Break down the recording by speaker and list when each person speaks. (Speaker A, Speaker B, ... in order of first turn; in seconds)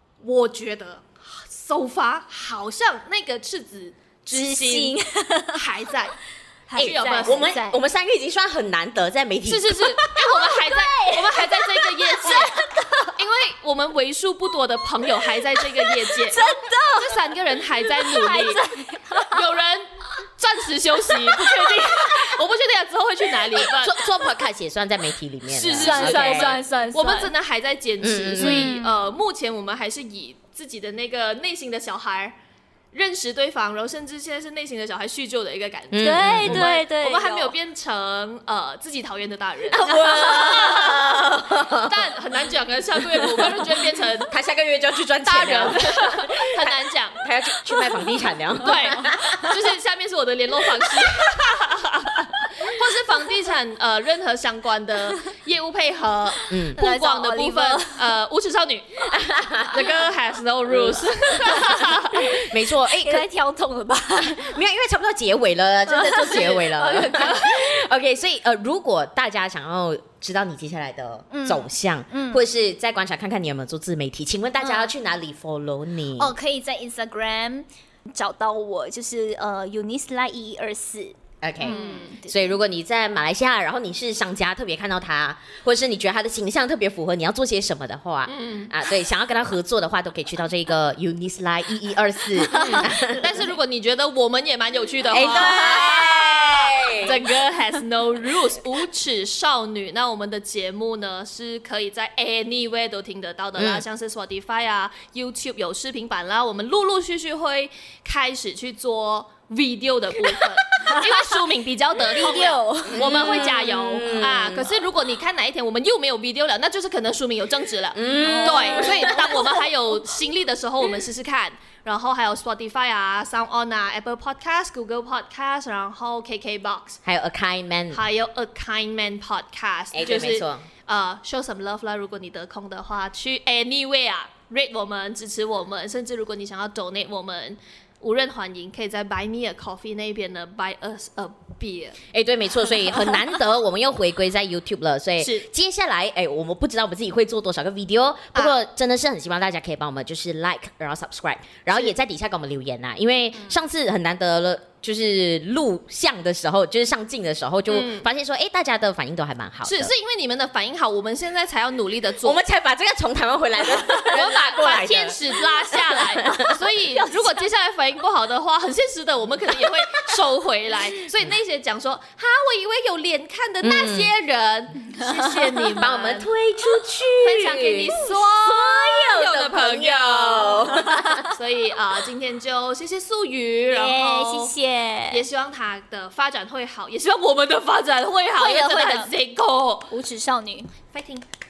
Speaker A: 0.2-5.0, 5.5-6.2, 6.8-7.5, 9.4-18.6, 19.3-24.0, 25.5-32.3, 32.9-41.0, 41.7-44.3, 45.2-47.2, 48.6-59.0, 59.7-62.4, 81.6-82.1, 88.3-88.7, 92.5-127.0, 127.9-142.0, 145.2-145.5, 157.7-158.1, 159.6-162.4, 164.0-176.3, 177.2-184.5, 185.1-189.9, 190.9-191.2
Speaker B: 4.3-5.6, 6.7-7.8, 10.2-13.1, 15.8-17.2, 17.9-19.4, 21.2-21.5, 25.8-27.3, 28.4-29.1, 36.0-37.5, 39.8-41.0, 48.6-49.5, 56.8-58.1, 61.5-61.8, 62.9-64.5, 65.9-67.5, 71.3-72.4, 74.6-74.9, 76.2-82.6, 92.5-92.9, 95.4-96.1, 112.1-113.7, 118.1-119.3, 166.9-167.4, 175.0-175.6, 180.8-181.2, 183.7-185.2, 188.3-189.1, 189.9-190.7
Speaker C: 6.8-10.0, 23.6-26.6, 28.0-28.7, 35.9-36.7, 39.7-42.1, 42.9-43.7, 44.3-49.4, 56.5-56.8, 59.1-59.9, 60.6-63.2, 64.2-76.3, 81.4-93.3, 95.1-97.2, 103.6-103.8, 112.8-114.8, 117.9-119.4, 127.0-128.0, 129.9-130.7, 142.1-159.9, 162.2-166.6, 173.6-174.1, 175.8-181.3